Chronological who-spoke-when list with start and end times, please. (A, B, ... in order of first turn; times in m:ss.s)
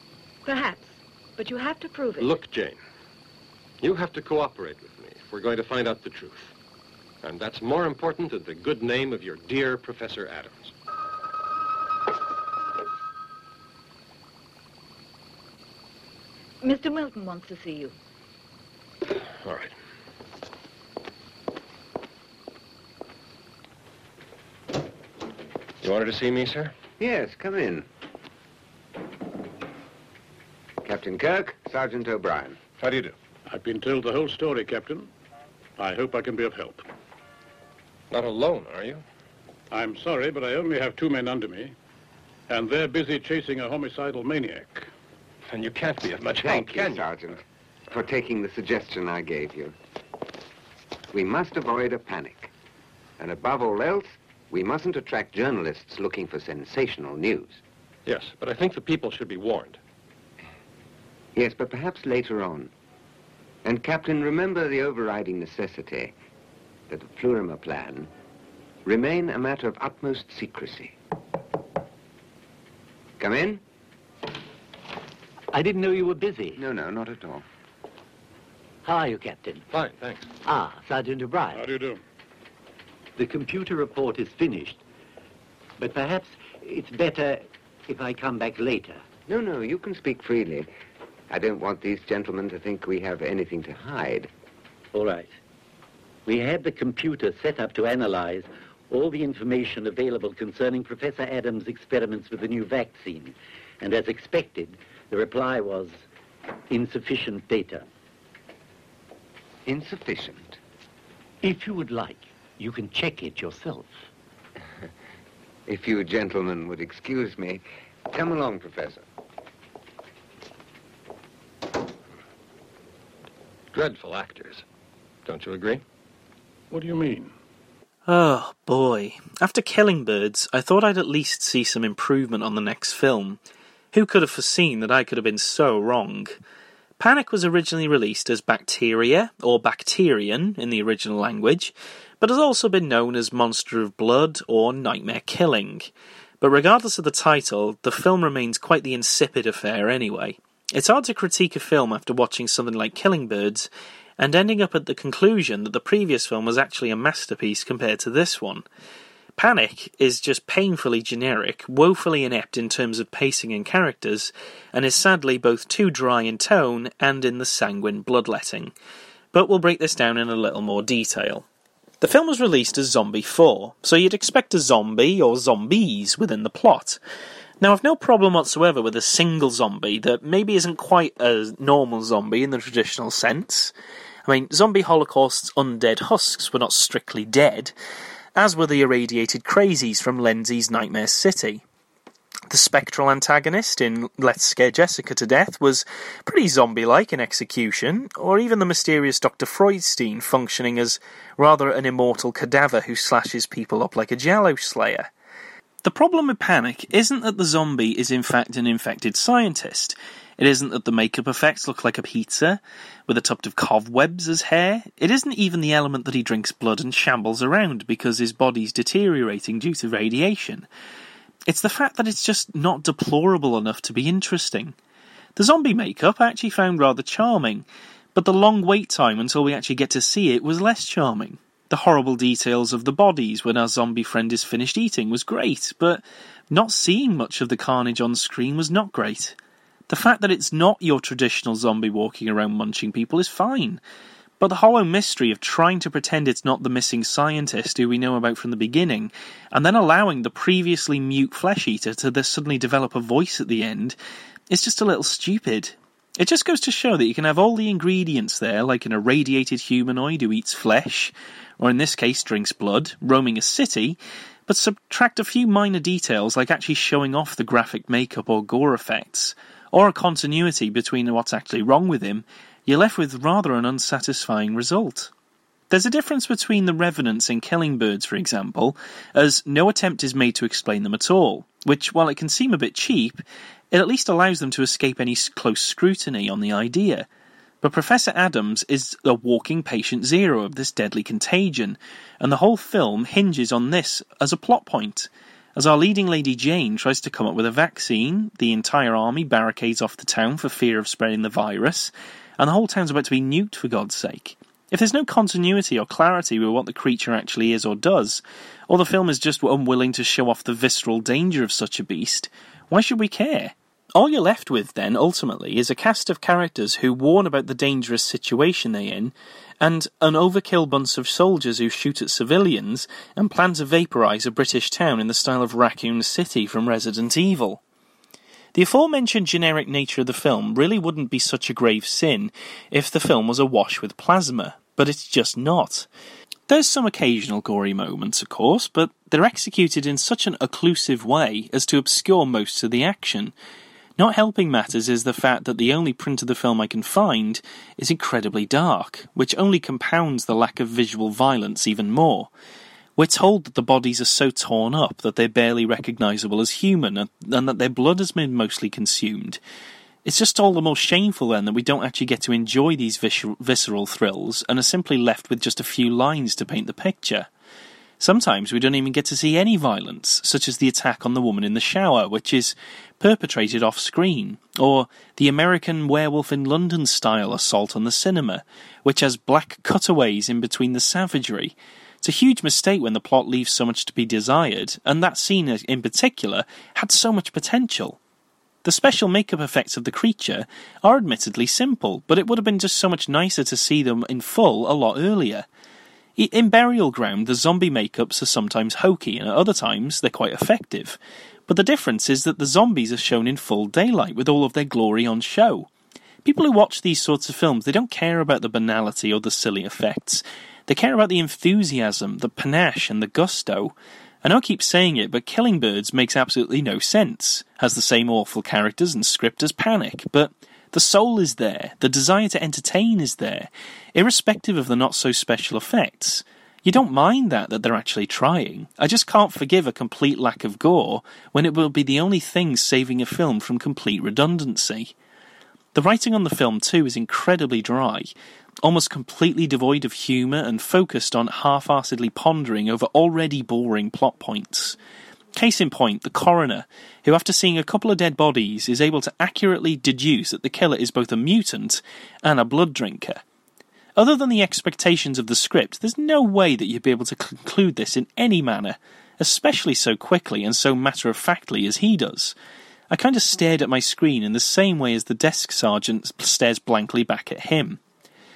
0:00.4-0:02.3 A
0:02.2-0:02.8 B
0:03.8-0:06.5 B
0:07.2-0:10.7 B
0:16.6-0:18.0 A
0:19.4-0:19.7 B
0:25.8-0:26.7 B
0:27.0-0:27.9 C
0:30.8-0:32.6 C
0:32.8-0:35.1 D
0:35.8-0:36.8 D
0:38.1-0:39.0 B
0:39.7-0:41.7 D
0:42.5-0:44.9 D
0:45.5-0:47.1 B
0:46.4-0:49.8 C
0:51.1-0:52.5 C
0:53.2-0:57.6 C
0:58.1-0:59.8 B
1:01.4-1:02.7 C
1:03.6-1:06.1 C
1:06.9-1:08.1 C
1:08.8-1:10.9 C
1:13.2-1:13.6 C
1:15.5-1:16.6 E
1:16.6-1:17.4 C
1:18.8-1:19.6 E
1:19.7-1:20.3 B
1:20.4-1:21.6 E
1:21.5-1:22.0 D
1:23.2-1:24.8 E
1:25.8-1:29.0 E
1:29.3-1:30.7 C
1:31.3-1:34.3 C
1:34.9-1:35.3 E
1:36.3-1:46.0 E
1:46.7-1:47.9 E
1:49.7-1:50.6 C
1:51.4-1:53.9 E
1:55.7-1:59.0 C
2:03.7-2:04.6 B
2:05.3-2:05.8 B
2:06.7-2:07.3 D
2:08.1-2:13.4 F
2:13.9-2:16.4 F
2:17.0-2:38.6 F
2:39.4-2:48.7 F
2:49.3-2:51.5 F
2:52.0-2:57.0 F
2:57.6-3:03.7 F
3:04.2-3:07.7 F
3:08.4-3:11.6 F
3:12.5-3:25.1 F
3:25.8-3:40.7 F
3:41.5-3:44.8 F
3:45.4-3:59.4 F
3:59.9-4:03.8 F
4:04.4-4:14.0 F
4:14.5-4:35.1 F
4:35.7-4:47.1 F
4:47.6-5:27.6 F
5:28.5-5:35.9 F
5:36.5-5:43.3 F
5:44.0-5:52.3 F
5:53.0-5:59.4 F
6:00.0-6:07.3 F
6:08.0-6:28.0 F
6:28.6-6:35.5 F
6:36.2-6:45.7 F
6:46.2-7:14.9 F
7:15.7-7:18.1 F
7:18.6-7:24.8 F
7:25.4-7:33.2 F
7:34.0-7:42.4 F
7:42.9-7:47.8 F